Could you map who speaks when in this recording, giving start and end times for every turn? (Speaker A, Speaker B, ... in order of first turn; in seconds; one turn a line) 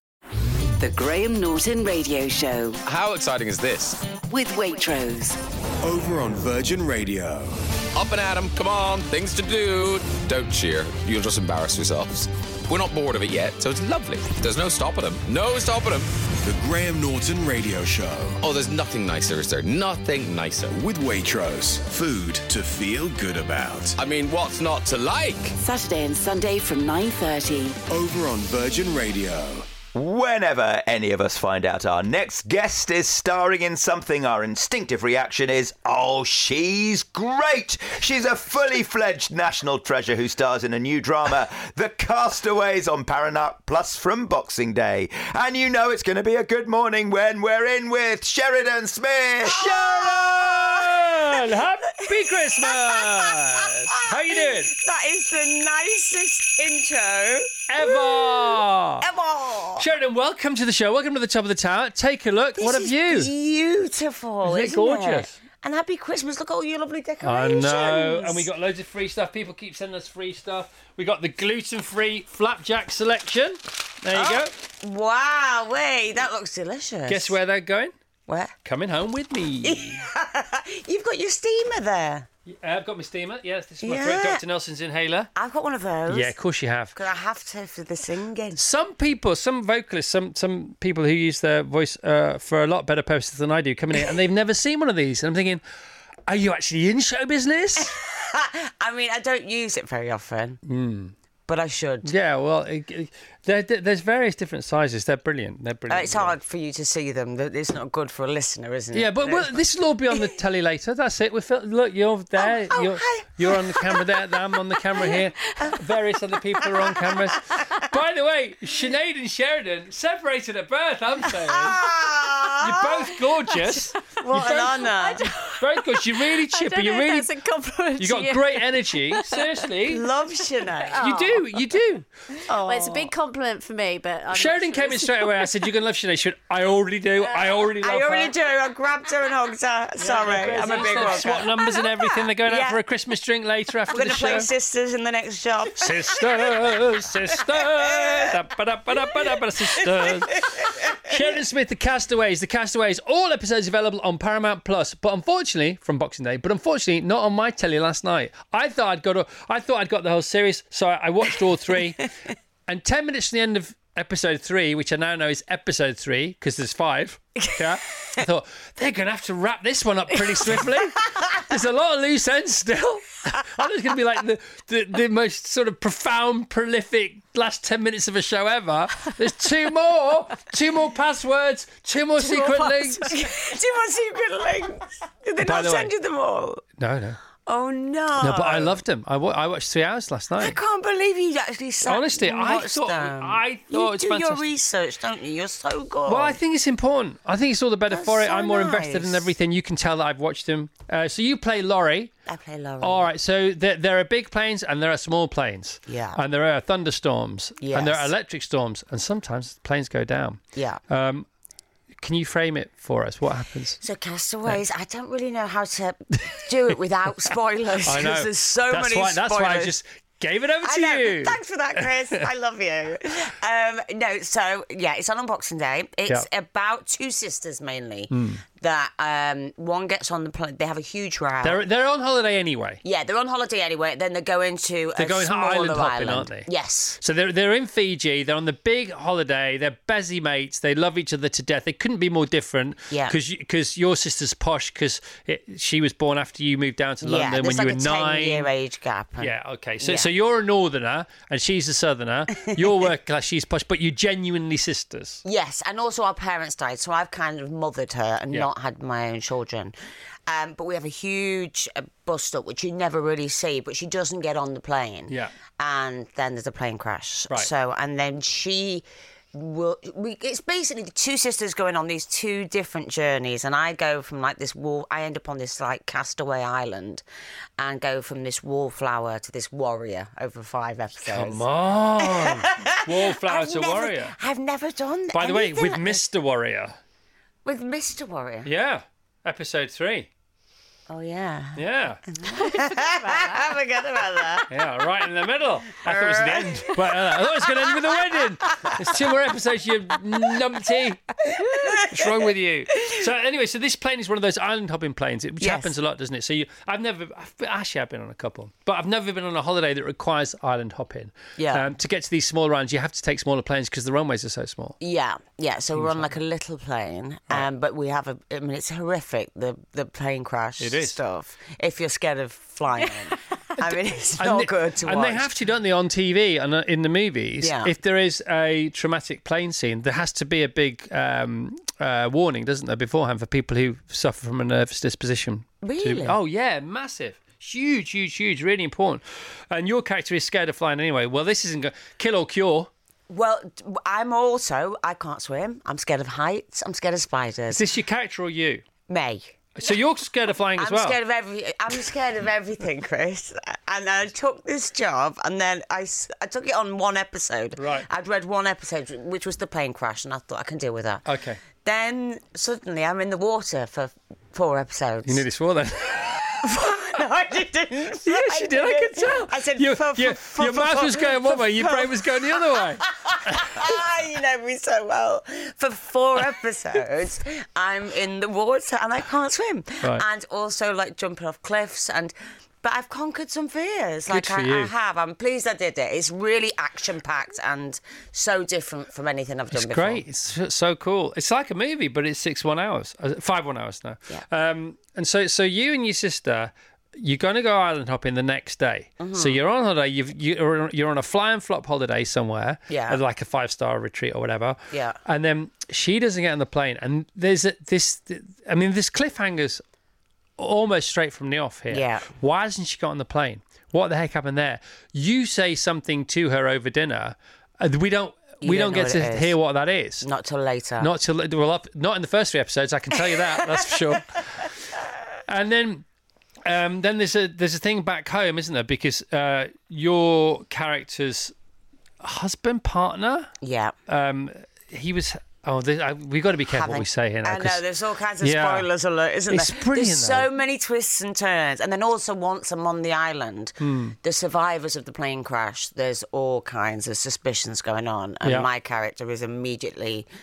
Speaker A: 0.8-2.8
Speaker B: 2.8-4.2
Speaker A: 4.2-5.4
Speaker C: 5.8-7.6
Speaker B: 8.0-16.1
Speaker C: 16.4-18.4
Speaker B: 18.4-20.8
Speaker C: 20.7-23.9
Speaker B: 24.0-25.6
Speaker A: 25.6-27.8
Speaker C: 27.9-29.7
Speaker D: 29.9-49.7
Speaker E: 49.5-54.7
Speaker F: 49.5-51.4
Speaker F: 52.0-59.9
Speaker E: 57.7-59.1
Speaker E: 59.8-63.3
Speaker F: 62.6-68.5
Speaker E: 64.4-65.4
Speaker E: 67.2-74.5
Speaker F: 74.1-77.3
Speaker E: 77.1-77.9
Speaker F: 78.3-78.5
Speaker E: 78.7-80.1
Speaker F: 79.6-82.3
Speaker E: 82.5-85.3
Speaker F: 83.8-84.4
Speaker F: 85.3-86.3
Speaker E: 86.1-87.0
Speaker F: 86.9-88.6
Speaker E: 88.6-95.6
Speaker E: 96.3-98.0
Speaker F: 97.8-100.6
Speaker E: 100.6-101.1
Speaker F: 101.5-102.1
Speaker E: 102.0-106.4
Speaker F: 105.9-110.3
Speaker E: 108.9-121.8
Speaker F: 112.4-114.3
Speaker F: 115.0-115.8
Speaker F: 116.6-117.8
Speaker F: 121.3-123.1
Speaker E: 122.6-124.9
Speaker F: 124.1-125.3
Speaker G: 124.2-129.5
Speaker E: 125.6-127.3
Speaker E: 128.0-130.1
Speaker F: 129.9-131.2
Speaker G: 130.8-131.4
Speaker E: 131.0-132.1
Speaker F: 132.5-133.1
Speaker G: 132.6-135.6
Speaker E: 134.3-138.3
Speaker F: 137.2-142.8
Speaker E: 140.0-144.5
Speaker F: 143.9-146.5
Speaker E: 145.8-162.1
Speaker F: 147.3-148.3
Speaker F: 148.9-151.1
Speaker E: 162.7-183.1
Speaker G: 182.2-183.2
Speaker F: 183.1-186.6
Speaker E: 185.4-185.9
Speaker E: 186.8-187.2
Speaker F: 187.5-188.8
Speaker E: 188.2-190.6
Speaker F: 190.4-196.4
Speaker E: 191.9-194.4
Speaker E: 196.1-202.1
Speaker F: 197.9-199.3
Speaker F: 202.3-203.1
Speaker E: 202.8-211.3
Speaker F: 205.9-206.2
Speaker F: 207.6-208.1
Speaker E: 212.0-213.8
Speaker F: 213.8-219.7
Speaker E: 217.8-222.2
Speaker F: 220.6-231.6
Speaker E: 228.1-228.4
Speaker E: 231.4-232.8
Speaker F: 232.8-237.0
Speaker E: 235.0-236.5
Speaker E: 237.0-248.5
Speaker F: 242.9-243.2
Speaker F: 247.0-250.1
Speaker E: 249.2-255.2
Speaker F: 255.2-259.7
Speaker F: 260.3-277.0
Speaker F: 277.6-281.4
Speaker E: 281.1-284.1
Speaker F: 282.0-286.0
Speaker E: 285.1-286.8
Speaker F: 287.4-288.5
Speaker E: 288.4-290.1
Speaker F: 290.9-294.5
Speaker E: 291.6-292.0
Speaker G: 292.4-293.4
Speaker E: 294.5-314.8
Speaker F: 295.8-297.7
Speaker F: 298.5-298.8
Speaker F: 301.4-301.9
Speaker F: 305.4-305.7
Speaker F: 311.4-311.7
Speaker F: 314.8-325.3
Speaker E: 315.8-316.2
Speaker E: 320.6-321.0
Speaker E: 323.6-342.7
Speaker F: 327.4-327.7
Speaker F: 335.6-336.2
Speaker F: 343.1-347.6
Speaker E: 347.5-348.6
Speaker F: 348.9-349.4
Speaker E: 349.6-351.0
Speaker F: 350.6-361.1
Speaker E: 357.6-357.9
Speaker E: 361.1-361.4
Speaker F: 361.6-365.2
Speaker E: 365.1-366.4
Speaker F: 366.4-390.1
Speaker E: 368.1-373.4
Speaker E: 384.1-384.7
Speaker E: 389.5-409.6
Speaker F: 399.0-399.4
Speaker F: 402.7-403.0
Speaker F: 404.7-405.0
Speaker E: 410.4-420.1
Speaker F: 411.7-412.1
Speaker F: 418.4-419.3
Speaker F: 420.0-420.9
Speaker E: 420.8-424.5
Speaker F: 423.4-423.7
Speaker E: 425.3-425.9
Speaker E: 426.4-431.3
Speaker E: 432.0-433.3
Speaker F: 433.4-433.7
Speaker E: 433.9-437.6
Speaker F: 436.5-450.1
Speaker E: 438.2-438.7
Speaker E: 439.3-440.3
Speaker E: 443.6-444.0